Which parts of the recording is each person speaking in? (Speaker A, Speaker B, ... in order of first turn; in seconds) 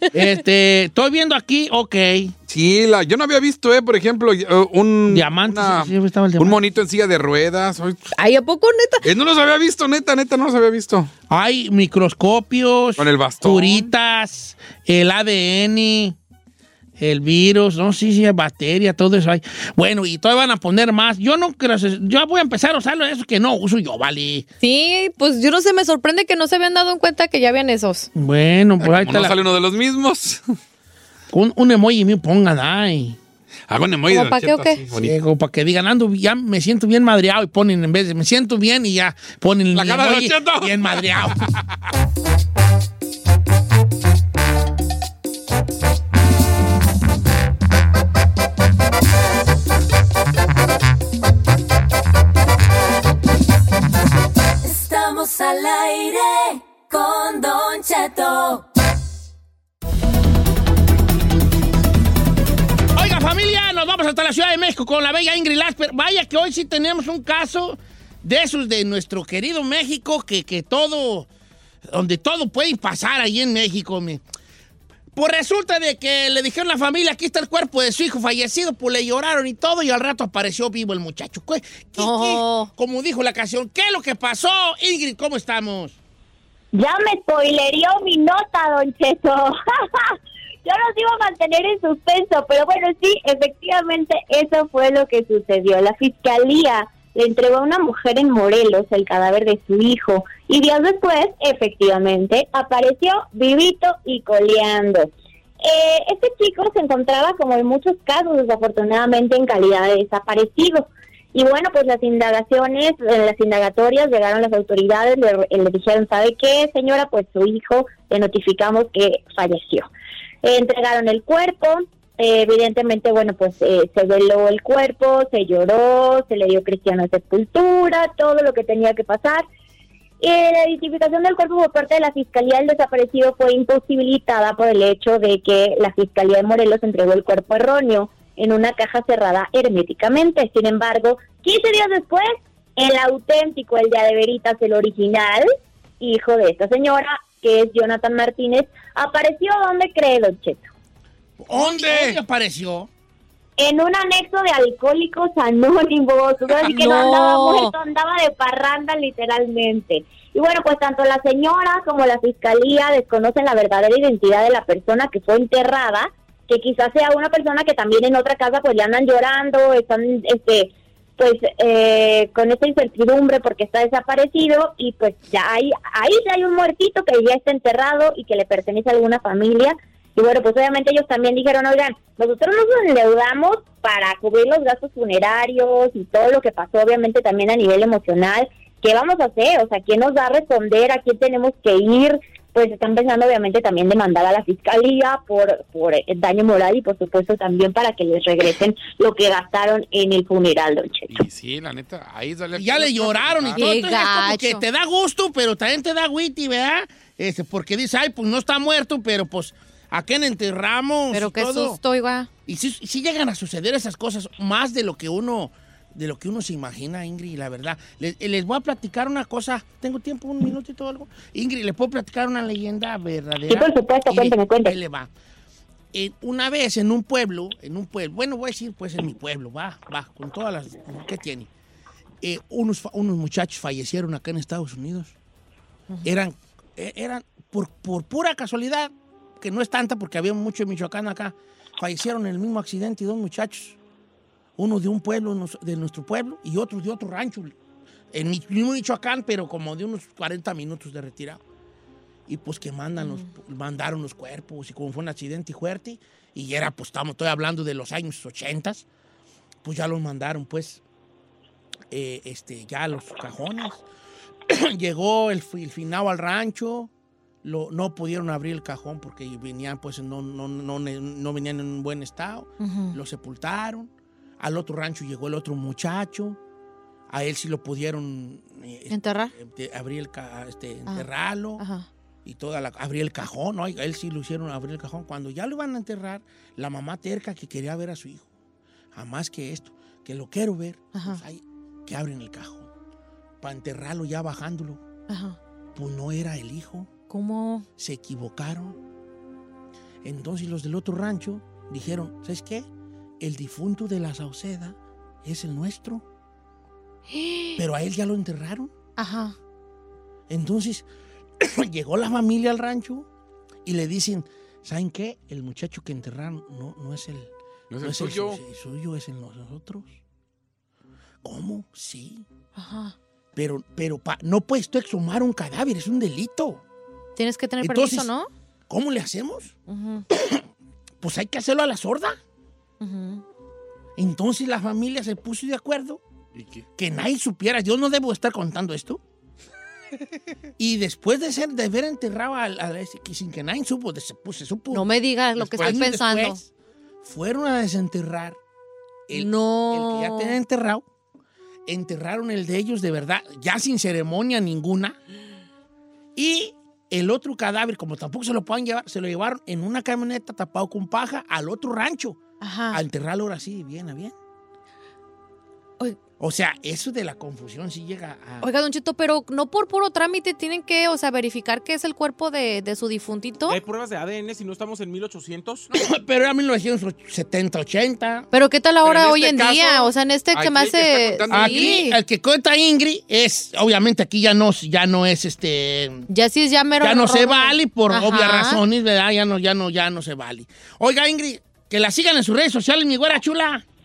Speaker A: 0.1-2.3, 5.1-6.6, 11.3-16.2, 17.0-24.5, 28.1-29.4, 31.3-33.2, 34.9-41.4, 62.9-71.3, 71.9-74.2, 75.1-86.0, 151.4-152.9, 202.5-211.8, 212.4-225.1, 225.9-231.5, 232.2-235.1, 236.0-243.8, 244.6-247.5, 248.1-251.4, 252.3-258.9, 259.6-260.8, 261.9-263.8, 264.5-266.9, 267.4-276.4, 277.1-281.6, 282.2-288.3, 288.9-292.7, 293.4-294.8, 295.7-296.9, 297.8-298.8, 300.0-302.7, 303.2-306.0, 307.6-308.7, 310.3-310.9, 311.4-313.1, 313.6-320.0, 321.2-322.2, 323.3-326.6, 327.6-328.1, 328.7-329.5, 330.1-330.4, 331.0-332.2, 334.0-336.0, 336.8-339.0, 340.6-346.4, 347.0-348.4, 349.1-350.8, 351.7-355.0, 356.1-362.2, 362.7-364.1, 366.2-368.4, 375.7-378.3, 381.3-386.1, 386.8-393.6
Speaker B: 2.5-8.0, 9.0-11.1, 13.0-13.9, 28.8-30.4, 33.7-35.1, 39.7-41.5, 151.5-152.2, 201.1-203.7, 317.7-318.4, 336.3-336.6, 345.5-345.8, 378.8-379.7, 380.3-381.9
Speaker C: 8.1-9.0, 24.6-28.1, 34.1-34.8, 82.0-82.7, 156.6-157.7, 203.6-204.6, 211.1-212.3, 253.0-253.3, 272.6-272.9, 278.9-279.3, 281.6-281.9, 290.9-291.2, 295.1-295.4, 297.1-297.6, 307.1-307.6, 309.0-309.3, 322.6-322.9, 327.1-328.3, 329.7-330.0, 332.8-333.2, 344.7-346.4, 349.1-350.3, 362.4-362.8, 368.4-373.6, 378.3-382.0, 386.1-388.6
Speaker D: 54.6-58.6
Speaker E: 86.7-119.9, 120.4-129.4, 130.2-145.5, 146.0-150.7, 153.6-201.1, 223.5-224.8
Speaker F: 373.5-375.7